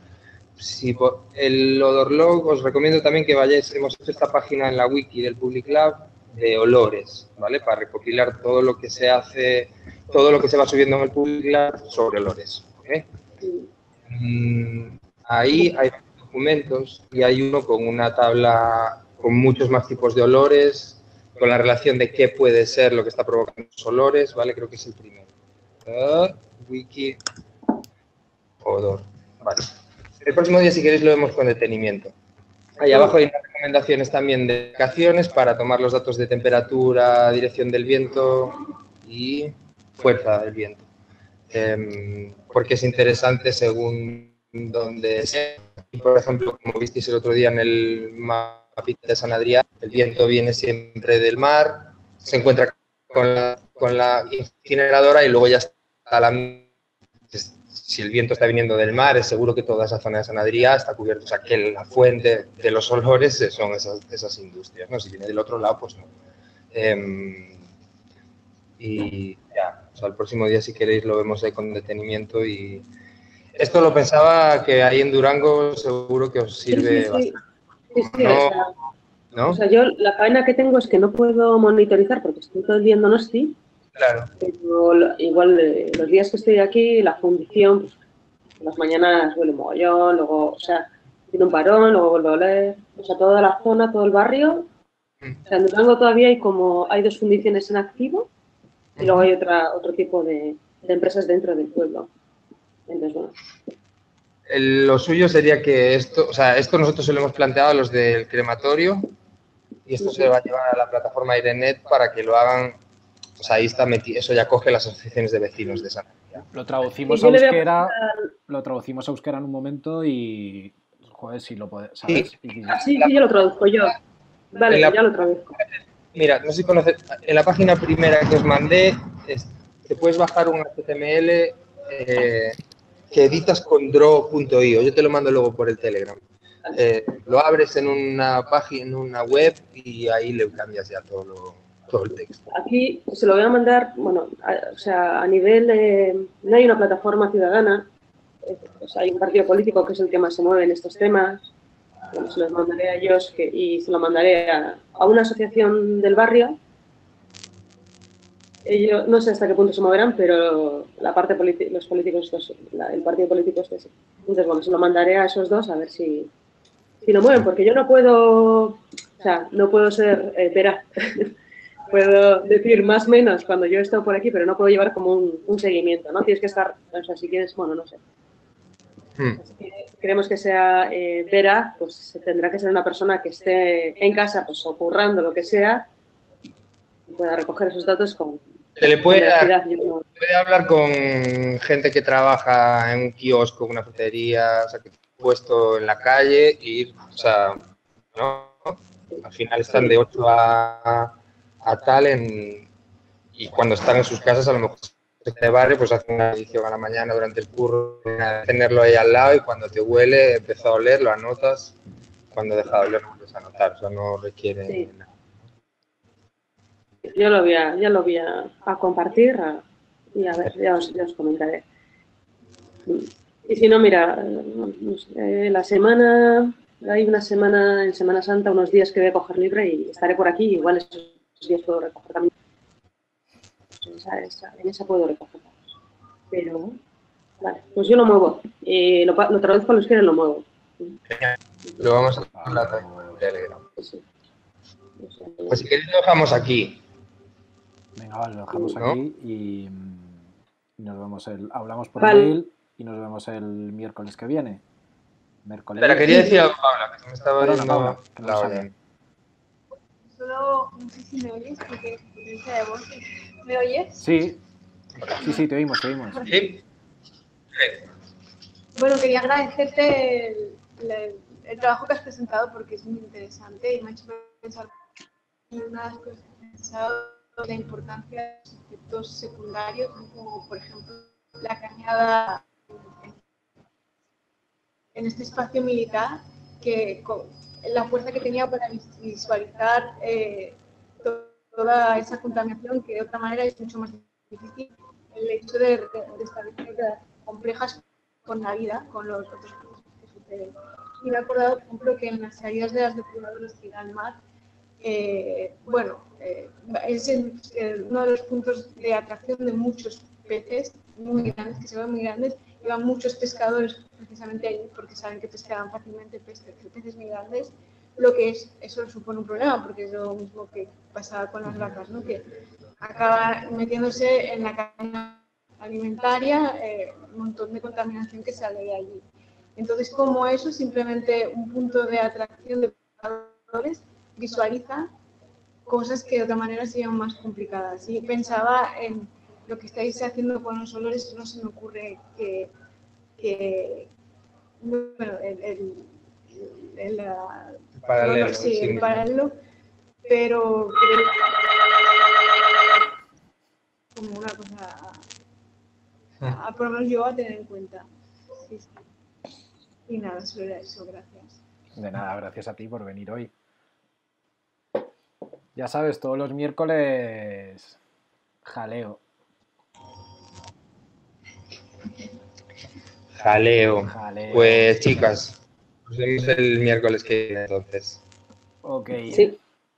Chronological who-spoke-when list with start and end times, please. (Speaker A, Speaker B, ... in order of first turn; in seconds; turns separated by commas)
Speaker A: 0.6-13.1, Speaker A: 14.1-25.3, Speaker A: 25.9-27.2, Speaker A: 28.6-32.1, Speaker A: 32.8-40.8, Speaker A: 41.5-56.7, Speaker A: 57.3-66.1, Speaker A: 66.7-67.7, Speaker A: 68.8-72.8, Speaker A: 73.6-77.3, Speaker B: 76.7-77.3, Speaker B: 77.9-78.7, Speaker A: 78.0-78.6, Speaker A: 79.3-79.6, Speaker B: 79.5-83.6, Speaker A: 84.0-84.3, Speaker B: 84.4-88.0, Speaker B: 88.6-94.7, Speaker B: 95.5-98.3, Speaker A: 99.0-99.3, Speaker B: 99.0-102.1, Speaker B: 102.9-103.3, Speaker A: 104.5-109.1, Speaker A: 109.9-112.8, Speaker A: 113.4-116.4, Speaker C: 116.5-118.0, Speaker B: 117.1-118.3, Speaker C: 118.5-122.8, Speaker B: 122.7-124.0, Speaker B: 124.5-125.5, Speaker A: 124.7-125.0, Speaker A: 125.6-132.6, Speaker A: 133.1-136.2, Speaker A: 136.7-142.4, Speaker B: 142.5-147.9, Speaker B: 148.4-151.5, Speaker B: 152.1-156.6, Speaker B: 158.7-166.3, Speaker B: 167.0-171.3, Speaker B: 171.9-178.0, Speaker B: 179.4-185.9, Speaker B: 187.1-188.4, Speaker A: 188.8-189.5, Speaker B: 189.1-190.1, Speaker A: 190.2-197.6, Speaker A: 198.2-202.7, Speaker A: 203.4-211.8, Speaker A: 212.3-215.1, Speaker B: 217.1-219.6, Speaker B: 220.2-221.6, Speaker B: 222.9-232.3, Speaker B: 233.8-235.5, Speaker B: 236.3-236.8, Speaker B: 237.4-241.0, Speaker A: 241.1-243.6, Speaker C: 242.3-243.2, Speaker B: 243.8-244.0, Speaker B: 245.0-245.6, Speaker A: 245.5-246.8, Speaker C: 248.0-254.6, Speaker B: 252.0-252.4, Speaker C: 255.4-256.5, Speaker A: 255.8-258.7, Speaker C: 257.4-258.7, Speaker D: 260.1-264.0, Speaker C: 264.0-264.4, Speaker C: 265.2-266.3, Speaker A: 266.3-266.6, Speaker A: 267.6-267.8, Speaker D: 268.8-274.7, Speaker D: 275.5-283.2, Speaker D: 284.9-304.2, Speaker D: 304.8-322.3, Speaker D: 322.8-329.0, Speaker D: 329.6-334.9, Speaker D: 335.7-342.5, Speaker D: 343.2-343.9, Speaker D: 344.6-349.4, Speaker A: 347.8-349.0, Speaker D: 350.1-351.3, Speaker D: 353.9-355.1, Speaker D: 356.2-357.9, Speaker D: 358.4-358.8, Speaker D: 359.9-361.4, Speaker C: 361.8-363.3, Speaker C: 365.6-367.8, Speaker C: 368.4-369.0, Speaker A: 373.2-378.0, Speaker C: 373.8-375.2, Speaker C: 378.6-379.3, Speaker B: 379.1-379.4